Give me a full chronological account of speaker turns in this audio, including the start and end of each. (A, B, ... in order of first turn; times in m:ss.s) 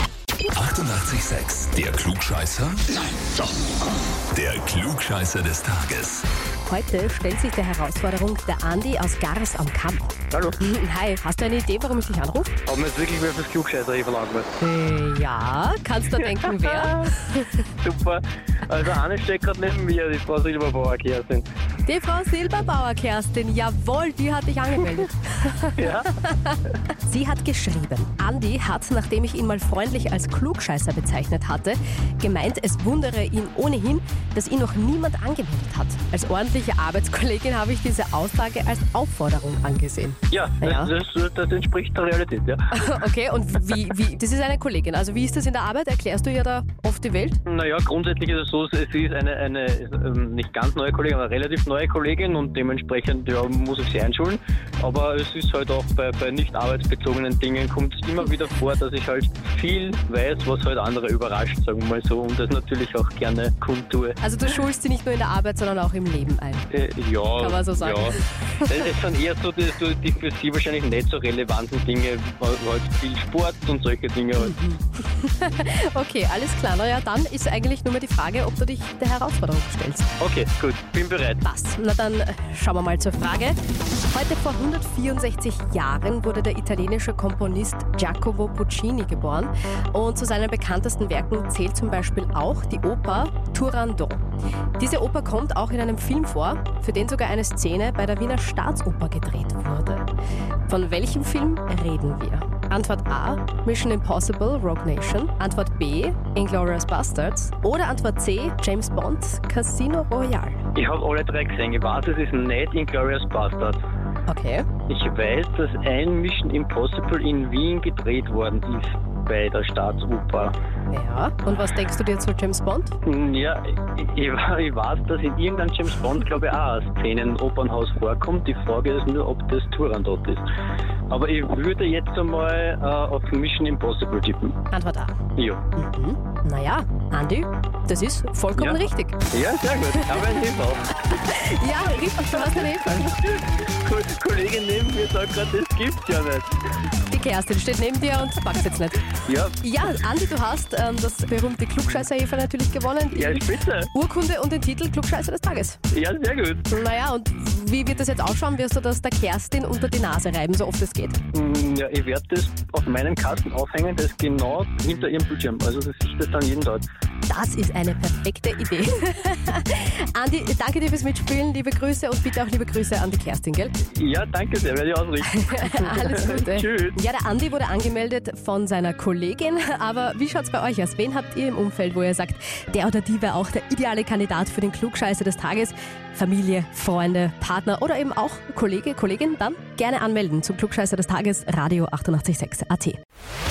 0:00.5-0:03.4 A
0:04.3-0:06.2 A
0:06.6-0:12.5 B
0:10.3-0:10.6 C
0:12.6-0:14.5 C
0:14.6-0:17.6 B
0:16.4-0:17.1 C
0:17.8-0:21.5 C
0:21.8-0:40.9 B
0:25.8-0:26.1 C
0:40.3-0:42.9 C
0:42.7-0:47.4 B
0:47.4-1:04.2 C
1:04.2-1:06.7 B
1:06.7-1:14.6 C
1:07.4-1:08.7 B
1:14.4-1:20.1 B
1:20.2-1:21.4 C
1:21.4-1:34.2 B
1:34.8-1:40.1 B
1:40.7-1:50.6 B
1:50.7-1:53.8 C
1:54.3-1:54.7 B
1:54.9-2:00.5 C
2:00.9-2:02.9 B
2:03.0-2:10.4 C
2:11.1-2:14.6 C
2:14.7-2:15.2 B
2:15.4-2:15.6 C
2:15.8-2:19.2 B
2:19.3-2:20.9 C
2:20.0-2:20.2 B
2:21.1-2:23.1 B
2:22.8-2:26.5 C
2:27.1-2:29.1 B
2:29.2-2:29.6 C
2:29.6-2:35.8 B
2:33.1-2:33.9 C
2:35.9-2:36.6 C
2:36.7-2:41.2 B
2:41.3-2:46.8 C
2:47.3-2:53.7 B
2:53.9-2:57.0 C
2:55.3-3:13.0 B